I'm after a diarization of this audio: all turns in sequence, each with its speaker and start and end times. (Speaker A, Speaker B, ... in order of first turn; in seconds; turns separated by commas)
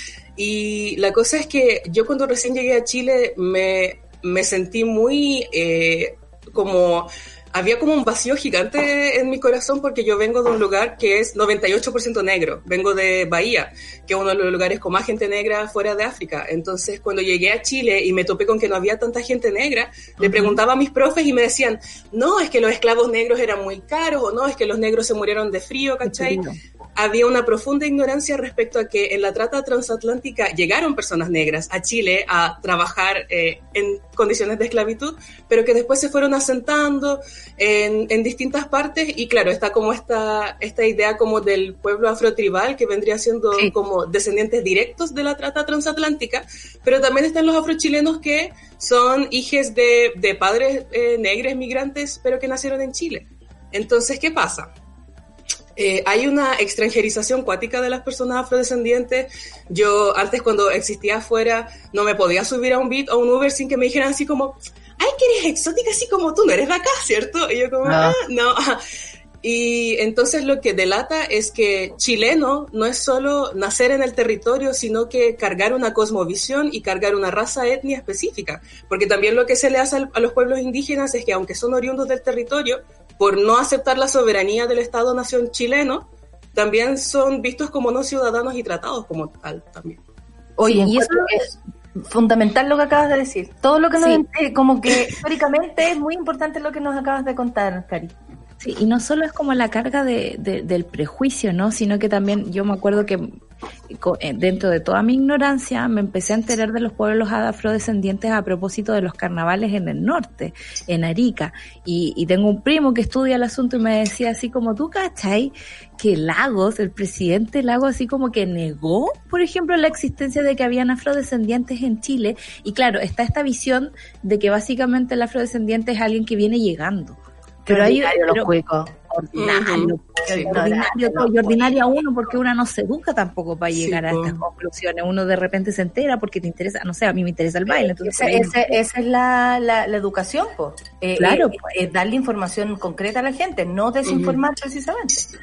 Speaker A: 0.3-54.7, Speaker B: 20.2-20.6, Speaker B: 26.0-26.5, Speaker A: 55.8-68.8, Speaker B: 67.8-68.2, Speaker A: 69.4-90.0, Speaker B: 90.6-98.1, Speaker C: 90.6-91.4, Speaker C: 98.6-103.3, Speaker C: 103.9-128.5, Speaker B: 127.7-129.3, Speaker C: 129.3-138.8, Speaker A: 129.3-130.5, Speaker B: 130.3-132.0, Speaker A: 133.7-134.4, Speaker B: 137.7-145.3, Speaker C: 141.2-141.6, Speaker A: 144.1-144.4